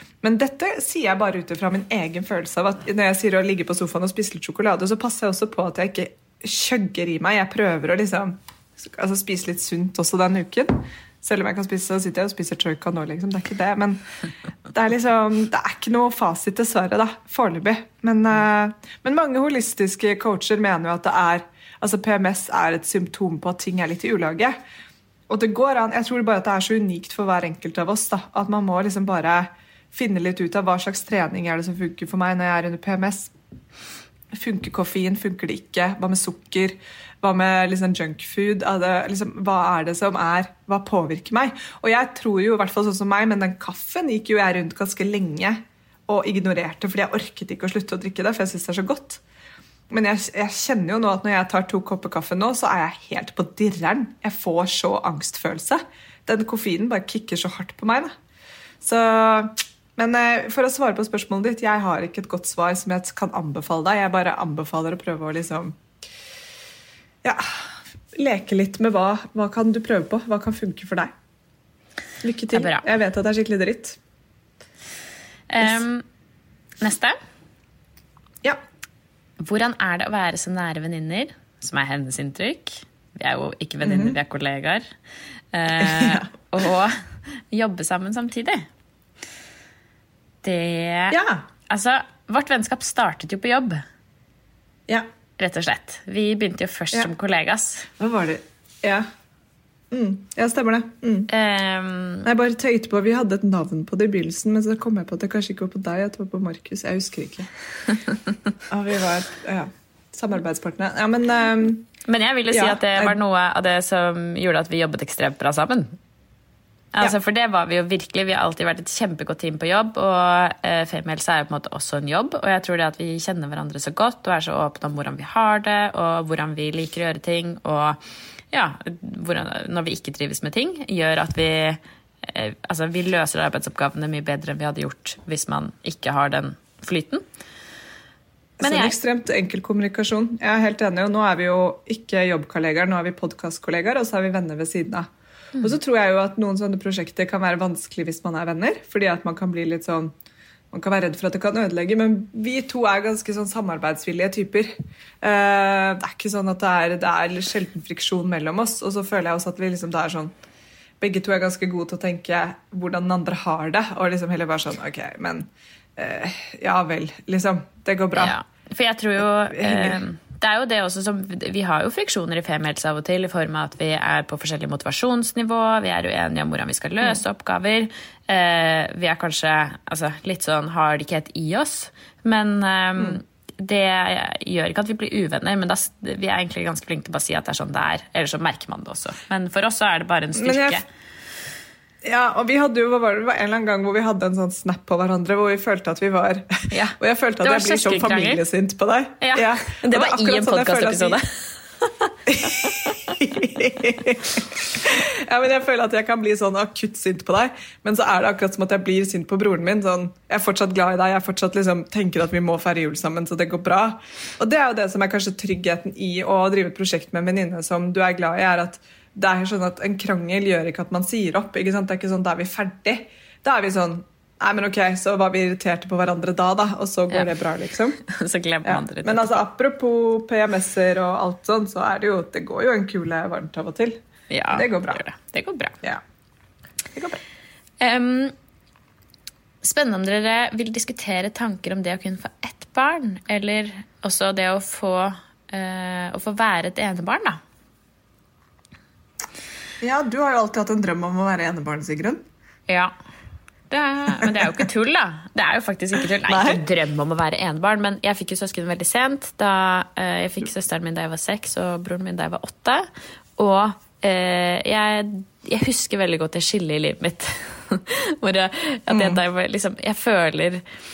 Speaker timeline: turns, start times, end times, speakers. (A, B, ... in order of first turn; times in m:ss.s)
0:00.2-0:14.0 A
0:14.7-0:24.6 A
0:25.3-0:33.3 A
0:34.3-0:49.2 A
0:49.9-0:58.1 A
0:58.8-1:05.8 A
1:07.2-1:11.1 A
1:12.2-1:14.0 A
1:12.5-1:12.8 B
1:15.5-1:16.0 B
1:16.8-1:17.2 B
1:19.4-1:24.8 B
1:23.8-1:24.2 A
1:25.5-1:27.0 B
1:25.8-1:26.3 A
1:27.5-1:28.6 B
1:30.4-1:33.8 B
1:31.1-1:31.4 A
1:35.4-1:37.9 B
1:38.0-1:39.1 A
1:39.9-1:41.3 A
1:41.3-1:42.3 B
1:42.2-1:47.5 A
1:48.7-1:51.9 A
1:52.0-1:56.0 B
1:52.5-1:53.2 A
1:56.9-2:17.2 B
2:18.6-2:19.0 B
2:18.6-2:25.1 A
2:25.6-2:30.1 A
2:30.7-2:40.3 A
2:41.0-2:48.4 A
2:48.1-3:10.8 B
2:49.2-2:50.0 A
3:10.4-3:10.8 A
3:12.0-3:21.2 A
3:16.7-3:18.4 B
3:19.2-3:21.2 B
3:21.8-3:22.9 B
3:22.3-3:48.0 A
3:48.1-3:49.4 B
3:48.6-3:54.0 A
3:54.3-3:55.7 B
3:54.5-3:55.0 A
3:56.9-3:57.2 A
3:57.8-3:58.4 B
3:59.6-4:07.4 B
4:09.8-4:12.2 A
4:13.7-4:30.6 B
4:14.2-4:14.6 A
4:16.3-4:16.6 A
4:28.9-4:29.2 A